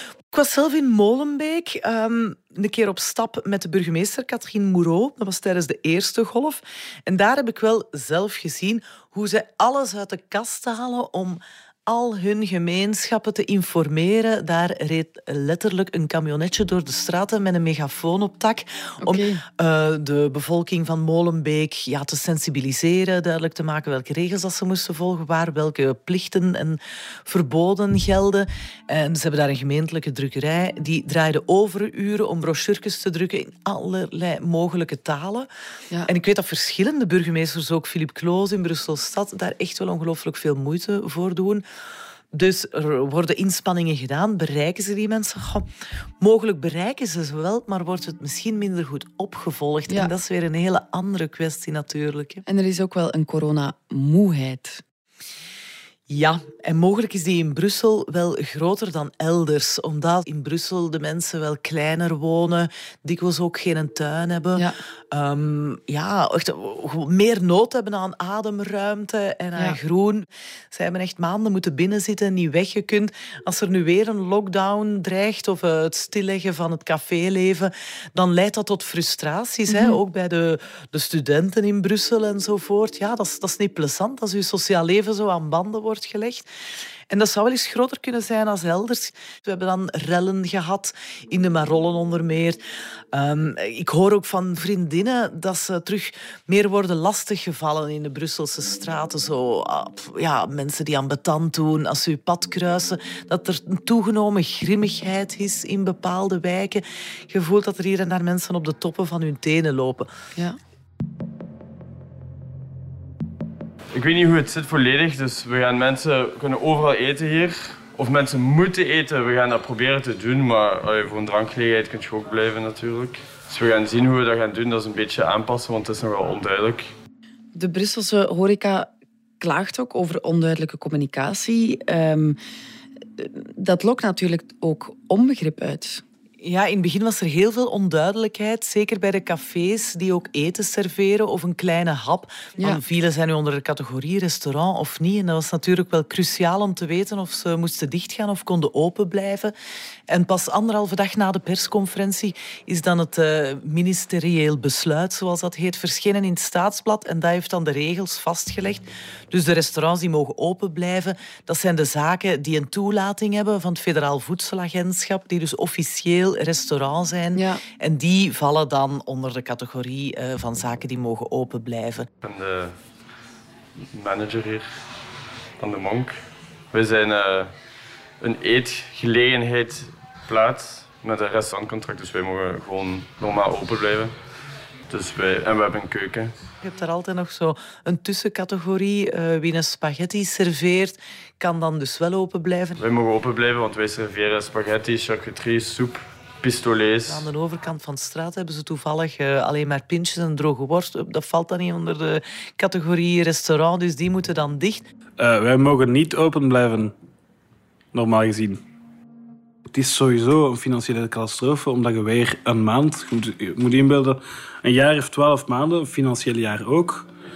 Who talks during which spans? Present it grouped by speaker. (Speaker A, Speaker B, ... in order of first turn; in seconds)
Speaker A: 0.3-35.5, 36.1-41.6, 42.3-45.7, 46.2-52.4, 56.1-86.5, 87.1-92.6, 93.1-110.1, 136.4-149.5, 150.1-172.1, 186.6-192.8, 197.1-204.8
Speaker B: 19.0-19.4, 52.5-54.8, 79.7-80.0, 127.5-128.9, 129.4-132.4, 133.2-136.0, 167.3-167.6
Speaker C: 113.9-126.9, 172.2-172.8, 173.9-174.8, 175.6-176.2, 176.7-177.5, 178.2-184.1, 184.9-186.3, 192.8-197.2
Speaker D: 205.2-206.9, 207.9-208.6, 209.7-217.1